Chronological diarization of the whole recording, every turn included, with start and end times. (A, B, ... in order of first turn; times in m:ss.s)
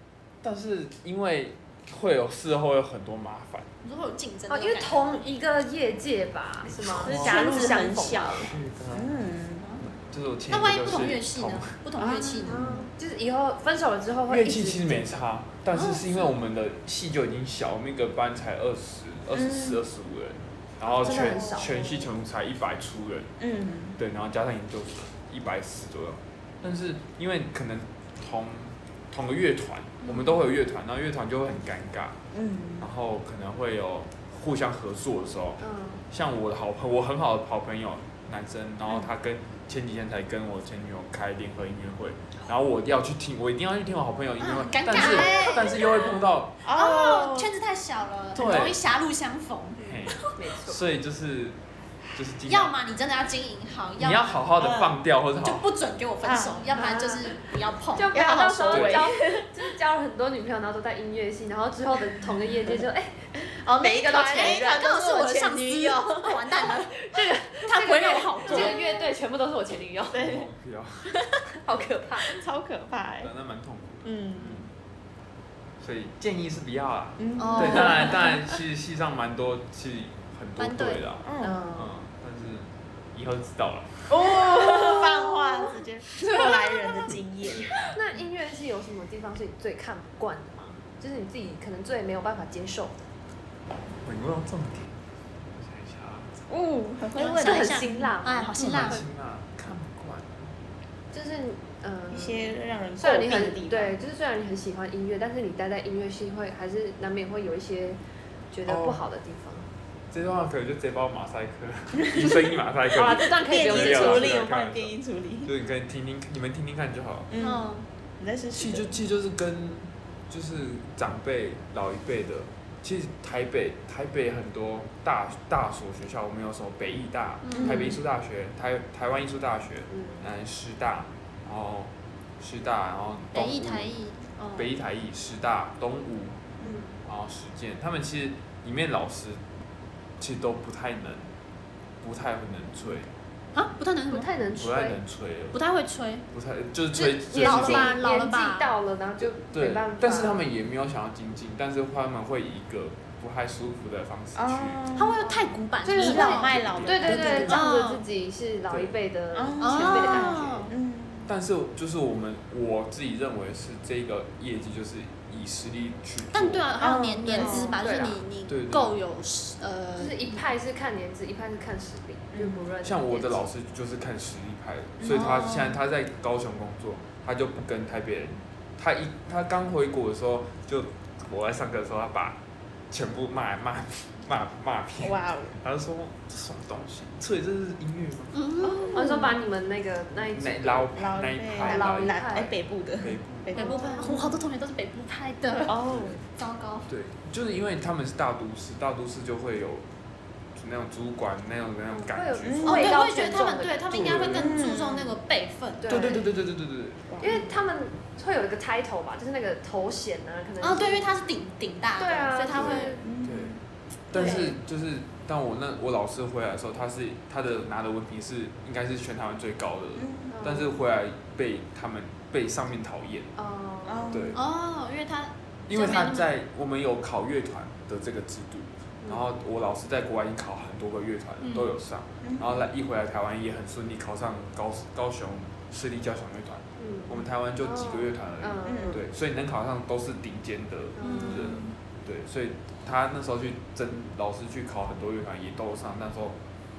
0:00.4-0:03.7 A
0:03.8-0:05.0 B
0:04.5-0:08.5 C
0:06.6-0:09.2 A
0:07.0-0:09.6 D
0:09.8-0:11.8 A
0:10.5-0:12.7 B
0:12.0-0:15.2 C
0:12.1-0:12.6 D
0:14.3-0:23.3 A
0:15.7-0:16.2 B
0:19.3-0:19.8 D
0:20.8-0:22.1 C
0:21.0-0:21.6 D
0:23.4-0:24.0 D
0:24.0-0:32.2 A
0:30.0-0:30.4 C
0:32.3-0:32.9 D
0:32.8-0:46.5 A
0:35.6-0:36.0 C
0:44.4-0:45.8 B
0:45.1-0:45.5 D
0:46.6-0:47.5 D
0:46.7-0:50.0 B
0:48.3-0:48.8 A
0:49.8-0:51.6 A
0:50.3-0:50.9 C
0:52.1-0:52.7 A
0:52.5-0:54.4 B
0:54.0-0:55.7 A
0:54.6-0:55.0 D
0:55.4-0:58.8 B
0:56.2-0:56.8 D
0:56.7-0:57.4 C
0:57.9-1:04.7 C
0:58.1-0:59.5 D
1:03.4-1:06.7 D
1:04.3-1:07.0 B
1:07.0-1:10.3 C
1:07.6-1:08.9 B
1:08.4-1:08.8 D
1:10.1-1:10.5 D
1:10.2-1:11.1 A
1:11.6-1:12.4 C
1:12.2-1:13.3 D
1:13.2-1:14.7 A
1:14.0-1:14.7 D
1:15.8-1:24.1 A
1:17.2-1:18.4 D
1:17.4-1:18.2 B
1:20.6-1:21.1 B
1:21.2-1:21.7 D
1:21.4-1:21.9 C
1:24.1-1:27.8 D
1:27.8-1:32.9 C
1:34.0-1:34.9 A
1:35.5-1:36.4 A
1:36.5-1:37.8 D
1:37.1-1:38.5 C
1:37.2-1:39.0 B
1:38.5-1:40.5 A
1:41.1-1:48.0 C
1:42.1-1:44.0 D
1:48.5-1:49.7 C
1:48.6-1:49.0 A
1:50.1-1:57.3 A
1:52.9-1:54.4 C
1:53.3-1:55.5 D
1:57.3-1:58.9 D
1:57.4-1:57.8 B
1:58.6-2:13.9 A
2:07.4-2:07.9 B
2:07.5-2:08.0 D
2:09.9-2:10.2 C
2:13.3-2:14.7 B
2:14.6-2:16.4 A
2:16.6-2:16.9 C
2:17.0-2:19.4 A
2:20.2-2:21.3 A
2:22.0-2:23.1 A
2:23.5-2:24.3 B
2:24.1-2:25.0 C
2:24.6-2:25.6 A
2:25.5-2:26.2 B
2:26.3-2:27.9 A
2:26.9-2:28.7 B
2:27.3-2:30.4 C
2:29.2-2:34.8 A
2:34.4-2:35.3 D
2:34.9-2:38.0 B
2:35.2-2:40.7 C
2:35.9-2:37.6 D
2:36.4-2:37.5 A
2:39.3-2:41.3 D
2:39.6-2:40.7 B
2:41.3-2:46.6 A
2:46.3-2:50.4 B
2:46.8-2:47.9 D
2:47.4-2:48.2 C
2:48.5-2:49.0 A
2:50.0-2:53.4 C
2:52.3-2:52.6 D
2:52.8-3:02.4 A
2:55.0-2:55.8 D
3:02.9-3:08.3 A
3:05.0-3:05.6 D
3:08.3-3:09.0 B
3:08.6-3:09.4 D
3:08.9-3:10.9 C
3:10.1-3:13.6 A
3:10.9-3:14.1 D
3:11.6-3:12.5 C
3:13.5-3:14.3 C
3:13.5-3:16.9 B
3:15.5-3:16.2 D
3:15.9-3:16.2 A
3:16.9-3:19.8 A
3:20.5-3:22.8 A
3:21.9-3:24.0 C
3:22.4-3:22.9 D
3:22.6-3:26.1 B
3:23.9-3:24.5 A
3:24.1-3:25.2 D
3:25.8-3:26.3 C
3:25.9-3:27.2 A
3:27.1-3:27.5 D
3:27.2-3:31.1 C
3:30.6-3:33.0 B
3:32.0-3:33.0 C
3:32.5-3:33.5 A
3:33.0-3:33.6 D
3:34.1-3:43.3 A
3:34.1-3:34.5 C
3:40.0-3:40.3 D
3:40.3-3:40.8 C
3:43.4-3:44.3 C
3:43.8-3:44.4 D
3:44.1-3:44.4 A
3:44.3-3:46.3 B
3:45.7-4:06.4 A
3:51.4-3:51.7 B
3:52.2-3:52.6 D
3:56.8-3:59.0 C
3:58.6-3:59.0 D
4:01.0-4:01.5 C
4:01.0-4:01.7 B